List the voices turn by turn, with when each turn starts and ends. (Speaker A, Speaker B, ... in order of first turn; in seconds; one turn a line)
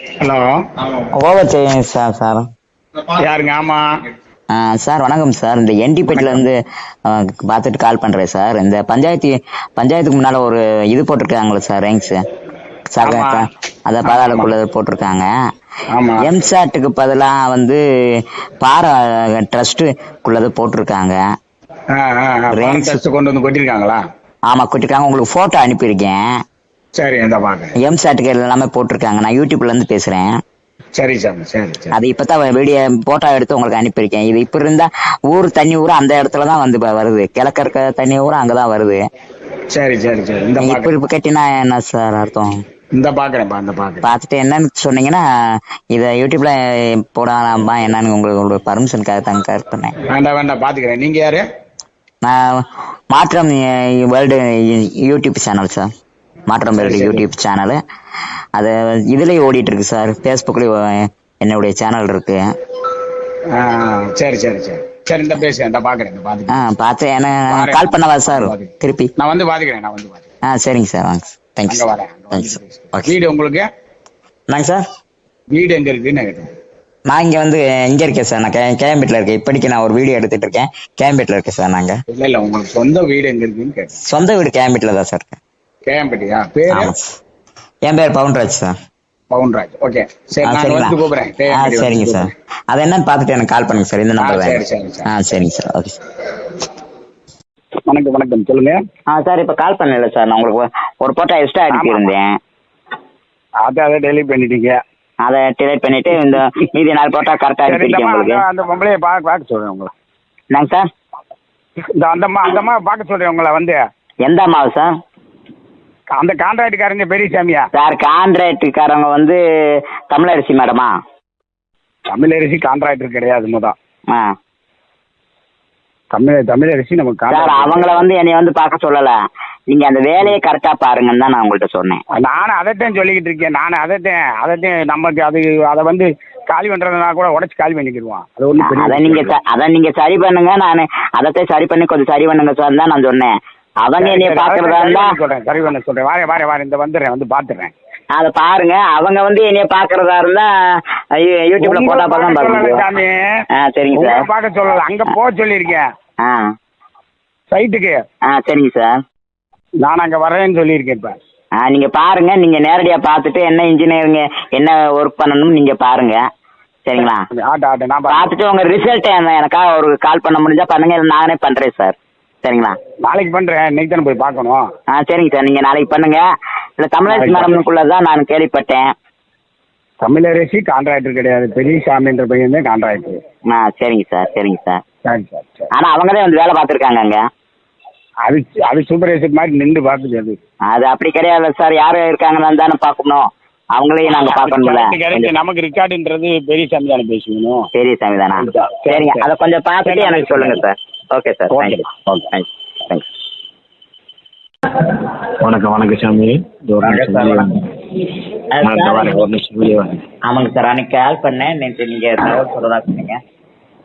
Speaker A: 0.2-0.6
Speaker B: 1.1-2.5
Speaker A: 3.2-3.9
Speaker B: 4.5-12.2
Speaker A: 6.1-6.4
Speaker B: 12.9-15.3
Speaker A: 13.0-13.4
Speaker A: 14.1-14.5
Speaker A: 15.9-16.3
Speaker B: 16.2-21.2
Speaker A: 21.9-24.0
Speaker B: 22.5-23.0
Speaker B: 24.5-26.2
Speaker A: 26.9-27.8
Speaker B: 27.8-30.3
Speaker A: 30.9-31.9
Speaker B: 31.9-39.0
Speaker A: 39.7-40.9
Speaker B: 40.6-42.6
Speaker A: 42.9-44.1
Speaker B: 44.0-45.2
Speaker B: 45.9-46.6
Speaker B: 47.1-49.9
Speaker A: 50.1-51.4
Speaker B: 52.2-55.9
Speaker B: 56.5-57.8
Speaker A: 56.8-57.2
Speaker B: 58.6-62.4
Speaker A: 63.5-66.6
Speaker B: 66.5-69.1
Speaker A: 67.5-70.3
Speaker B: 70.5-73.1
Speaker A: 71.7-73.7
Speaker B: 74.5-74.8
Speaker A: 75.5-76.5
Speaker B: 77.1-82.0
Speaker A: 82.1-83.9
Speaker B: 84.0-85.4
Speaker A: 85.9-86.9
Speaker B: 86.7-87.1
Speaker B: 87.8-88.8
Speaker A: 89.3-92.3
Speaker B: 90.4-91.0
Speaker B: 91.5-96.0
Speaker A: 94.2-95.1
Speaker A: 97.9-98.8
Speaker B: 99.1-102.3
Speaker A: 101.7-102.1
Speaker A: 103.6-104.8
Speaker B: 105.2-108.4
Speaker A: 107.7-109.9
Speaker B: 110.5-110.9
Speaker A: 112.0-113.8
Speaker B: 114.2-114.9
Speaker A: 116.1-117.7
Speaker B: 117.7-119.4
Speaker B: 120.1-120.9
Speaker A: 122.1-123.8
Speaker A: 126.1-128.1
Speaker B: 127.3-129.1
Speaker B: 129.7-132.0
Speaker A: 132.2-139.3
Speaker B: 138.6-145.1
Speaker A: 144.0-147.7
Speaker B: 148.1-150.5
Speaker B: 151.1-152.8
Speaker A: 151.6-153.3
Speaker B: 153.6-154.3
Speaker A: 153.9-155.8
Speaker B: 156.2-156.5
Speaker A: 157.5-158.0
Speaker B: 158.3-159.0
Speaker A: 159.8-161.2
Speaker B: 161.6-166.2
Speaker B: 166.8-167.2
Speaker A: 167.0-168.4
Speaker B: 168.1-172.8
Speaker A: 173.0-174.6
Speaker B: 174.9-176.2
Speaker B: 176.8-178.9
Speaker A: 177.1-177.6
Speaker A: 180.0-183.2
Speaker B: 183.5-184.8
Speaker A: 185.1-185.7
Speaker B: 185.7-187.2
Speaker A: 188.2-190.4
Speaker B: 190.7-195.3
Speaker A: 194.1-197.7
Speaker B: 197.7-201.8
Speaker A: 198.4-199.3
Speaker A: 199.8-200.6
Speaker A: 201.5-202.3
Speaker B: 202.3-203.0
Speaker A: 205.4-207.6
Speaker B: 206.8-207.5
Speaker B: 208.5-209.2
Speaker A: 208.6-210.0
Speaker B: 210.2-213.2